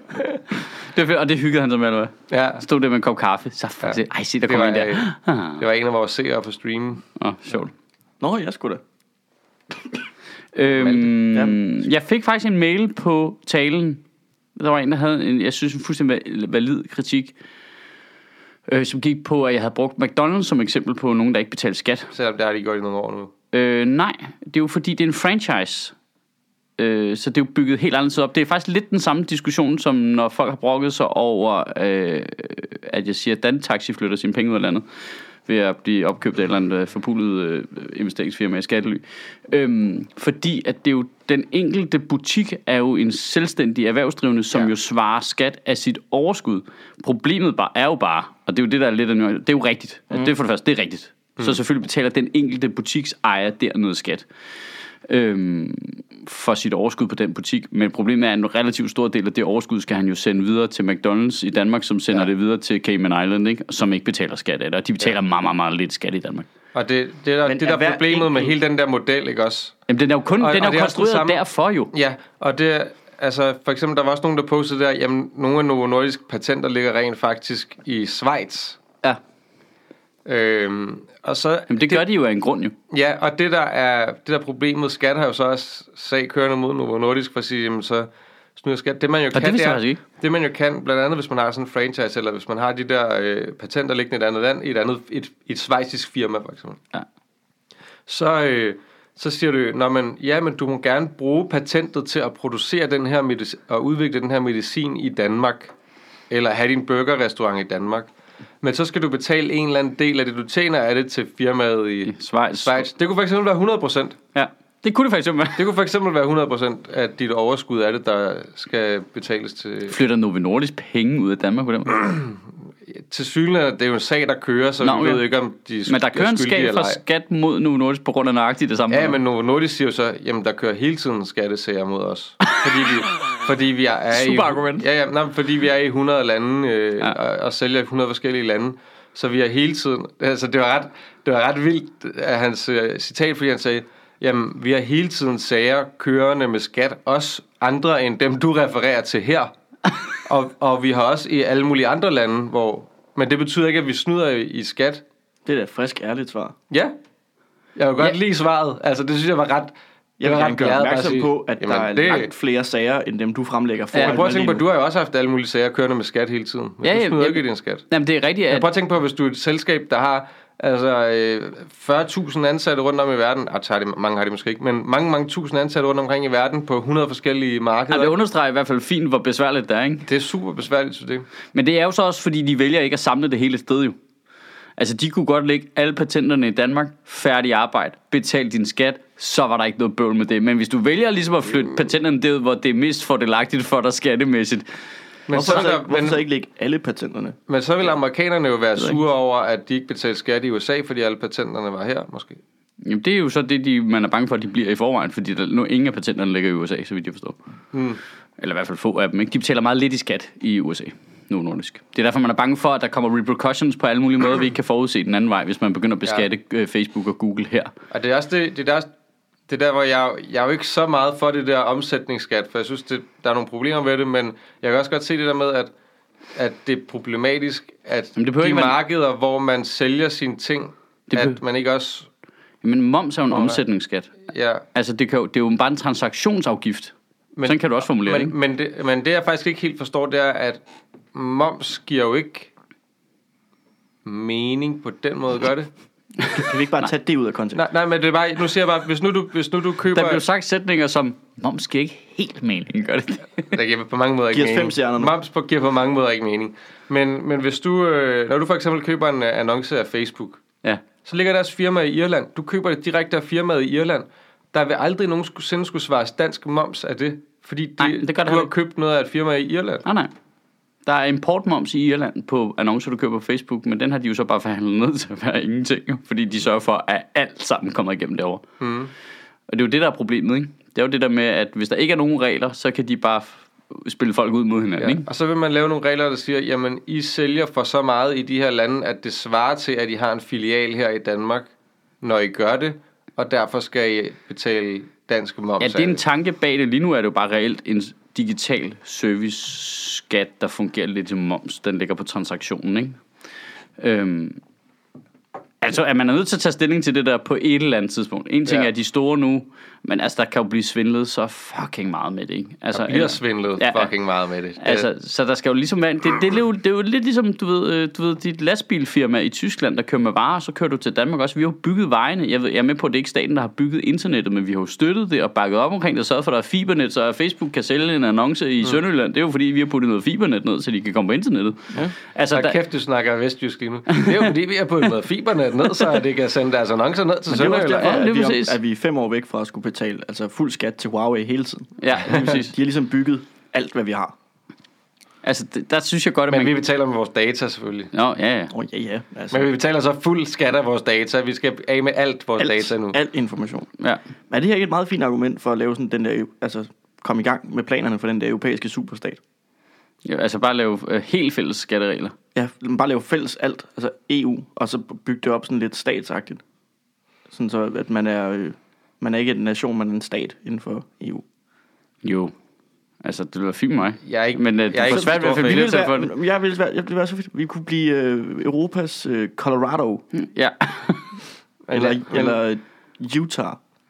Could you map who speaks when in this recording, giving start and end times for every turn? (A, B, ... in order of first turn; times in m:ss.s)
0:00.9-0:05.6 A
0:02.3-0:02.6 B
0:03.8-0:05.1 B
0:05.6-0:07.0 B
0:07.2-0:07.7 A
0:08.2-0:08.8 C
0:10.5-0:14.0 A
0:10.8-0:11.7 C
0:14.6-0:17.3 A
0:18.7-0:22.1 A
0:22.1-0:23.3 B
0:23.5-0:26.0 A
0:26.8-0:34.9 A
0:35.5-0:54.3 A
0:55.1-1:06.5 A
1:06.7-1:09.8 B
1:07.4-1:08.6 C
1:09.9-1:11.9 A
1:10.4-1:11.4 B
1:11.9-1:18.8 B
1:20.3-1:22.0 B
1:21.7-1:22.7 A
1:22.9-1:36.8 B
1:29.3-1:30.0 A
1:38.1-1:45.7 B
1:46.3-1:48.1 B
1:48.6-1:54.2 B
1:52.1-1:52.9 A
1:54.4-1:55.6 A
1:55.6-1:59.9 B
1:59.9-2:02.0 A
2:02.0-2:02.3 B
2:02.9-2:07.0 B
2:04.8-2:05.2 A
2:05.9-2:09.2 A
2:08.9-2:29.5 B
2:14.1-2:14.8 A
2:30.2-2:35.0 B
2:35.5-2:36.6 C
2:37.8-2:42.3 B
2:40.2-2:44.6 C
2:43.9-2:44.2 A
2:44.0-2:47.9 B
2:46.8-2:48.7 A
2:48.5-2:58.2 B
2:57.9-3:00.1 A
3:00.1-3:01.3 B
3:01.5-3:04.0 A
3:04.8-3:14.7 A
3:15.3-3:16.2 B
3:15.3-3:17.4 C
3:17.5-3:22.4 B
3:22.8-3:27.4 A
3:27.7-3:28.0 B
3:28.4-3:37.7 A
3:37.9-3:38.9 B
3:39.5-3:45.7 B
3:46.4-3:52.1 B
3:48.2-3:48.8 A
3:51.1-3:51.4 A
3:52.6-3:54.1 A
3:53.3-3:53.6 B
3:54.3-3:54.6 B
3:54.7-3:56.9 A
3:57.4-4:00.6 B
3:57.4-3:58.3 A
4:01.1-4:02.5 B
4:04.0-4:05.7 B
4:06.3-4:07.6 C
4:07.6-4:10.2 B
4:09.9-4:13.5 A
4:13.5-4:20.4 B
4:14.3-4:15.1 C
4:21.0-4:29.8 B
4:27.8-4:28.5 A
4:29.8-4:30.1 A
4:30.8-4:38.4 A
4:38.6-4:38.9 B
4:39.5-4:45.1 A
4:44.8-4:51.5 B
4:52.0-4:56.0 B
4:55.6-5:03.0 A
5:03.8-5:04.4 A
5:05.6-5:13.9 A
5:12.7-5:14.9 B
5:14.6-5:32.6 A
5:32.3-5:38.0 B
5:33.9-5:34.2 A
5:37.3-5:44.1 C
5:37.8-5:38.6 A
5:41.8-5:42.5 A
5:45.2-5:46.5 A
5:46.3-5:47.9 B
5:47.9-5:48.5 A
5:48.5-5:49.5 C
5:49.3-5:53.0 B
5:52.4-5:53.7 C
5:54.3-5:59.2 C
6:00.0-6:02.2 A
6:02.4-6:06.4 C
6:07.3-6:11.2 C
6:12.0-6:12.3 A
6:13.0-6:16.1 A
6:14.0-6:15.7 B
6:14.9-6:20.0 C
6:20.1-6:21.1 A
6:21.7-6:22.4 B
6:21.7-6:23.6 C